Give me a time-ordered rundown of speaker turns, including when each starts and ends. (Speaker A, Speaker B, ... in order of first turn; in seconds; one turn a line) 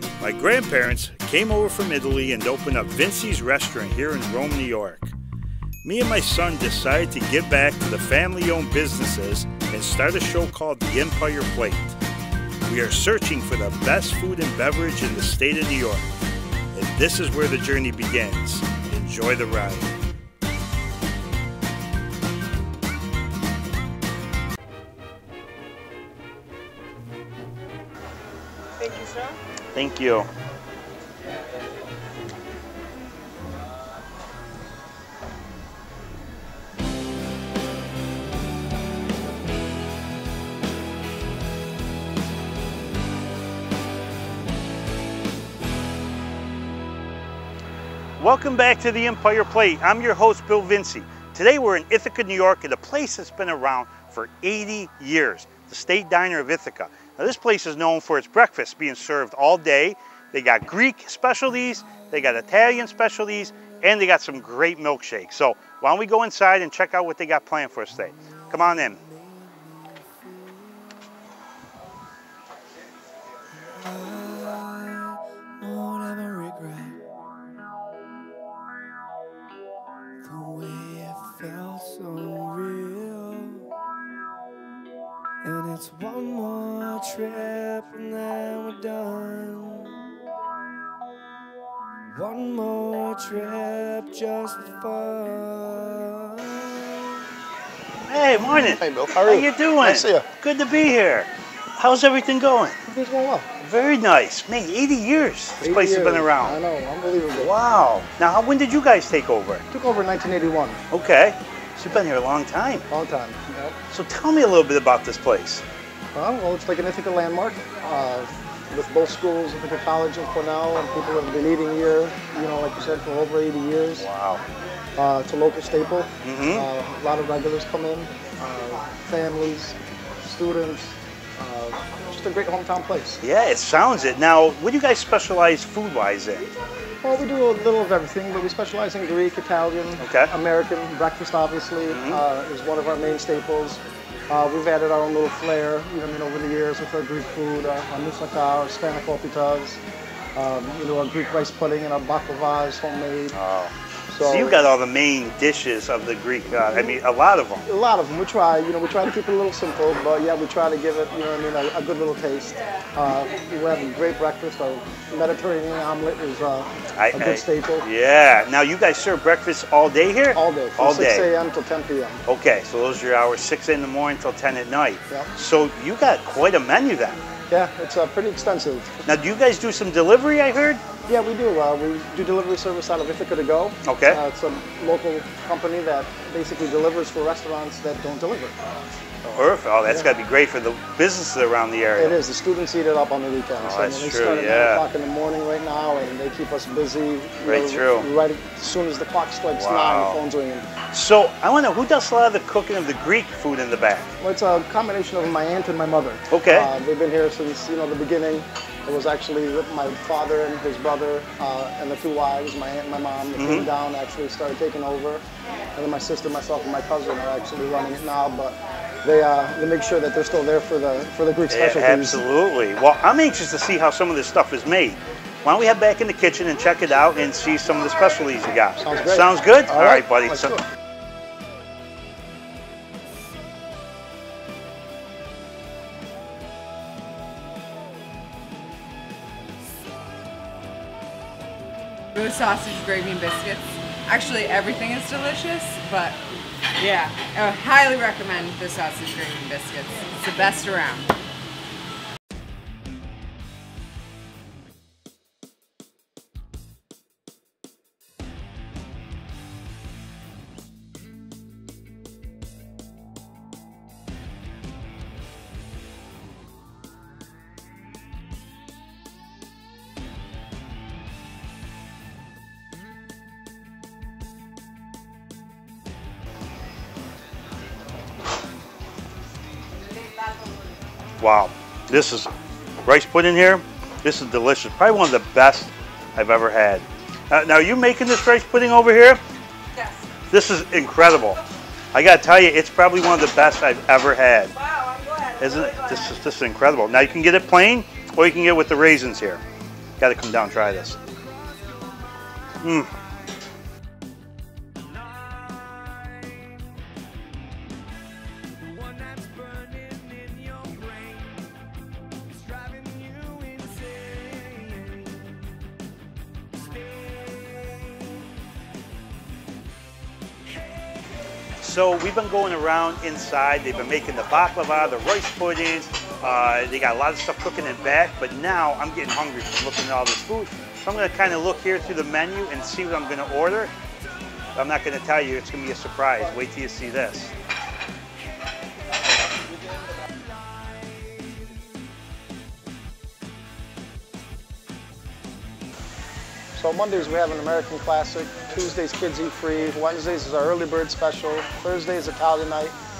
Speaker A: 0.2-5.1
Speaker A: 5.8-12.0
Speaker A: 12.6-16.1
Speaker A: 16.7-19.9
Speaker B: 28.8-29.3
Speaker A: 29.7-30.3
Speaker A: 48.2-69.0
Speaker C: 68.5-70.8
Speaker C: 73.6-77.0
Speaker C: 80.2-83.7
Speaker C: 85.4-90.1
Speaker C: 92.1-96.8
Speaker A: 98.1-102.8
Speaker D: 98.8-100.2
Speaker D: 102.8-103.5
Speaker A: 103.6-106.6
Speaker D: 105.6-107.5
Speaker A: 107.3-109.6
Speaker D: 109.7-110.8
Speaker A: 110.9-112.8
Speaker D: 112.9-113.8
Speaker A: 113.9-115.6
Speaker D: 116.1-124.0
Speaker A: 124.0-124.4
Speaker D: 125.0-133.2
Speaker A: 126.2-126.7
Speaker A: 133.2-136.5
Speaker D: 137.0-149.8
Speaker A: 140.0-140.3
Speaker A: 141.9-142.2
Speaker D: 150.3-153.3
Speaker A: 153.3-157.7
Speaker D: 154.1-154.6
Speaker D: 157.6-167.9
Speaker A: 166.9-171.3
Speaker D: 170.3-172.2
Speaker A: 172.3-177.2
Speaker D: 177.5-178.9
Speaker A: 179.1-180.8
Speaker D: 181.1-188.6
Speaker A: 183.8-184.2
Speaker D: 189.2-190.1
Speaker A: 189.3-192.2
Speaker D: 191.9-200.7
Speaker A: 193.6-194.8
Speaker A: 197.4-198.1
Speaker A: 199.5-200.2
Speaker A: 200.9-204.1
Speaker D: 204.2-215.2
Speaker A: 206.3-206.7
Speaker A: 213.4-213.7
Speaker D: 215.7-222.2
Speaker A: 221.5-230.6
Speaker D: 228.8-230.6
Speaker B: 242.1-246.2
Speaker B: 246.8-251.1
Speaker A: 281.2-282.3
Speaker A: 282.9-289.2
Speaker A: 290.3-291.4
Speaker A: 291.9-294.5
Speaker B: 294.7-295.2
Speaker A: 295.4-299.4
Speaker A: 300.0-301.0
Speaker C: 301.0-302.6
Speaker A: 302.6-302.9
Speaker C: 304.9-306.4
Speaker C: 308.6-311.5
Speaker C: 312.3-315.4
Speaker C: 316.6-318.2
Speaker A: 321.6-333.7
Speaker A: 334.6-337.3
Speaker D: 346.5-352.8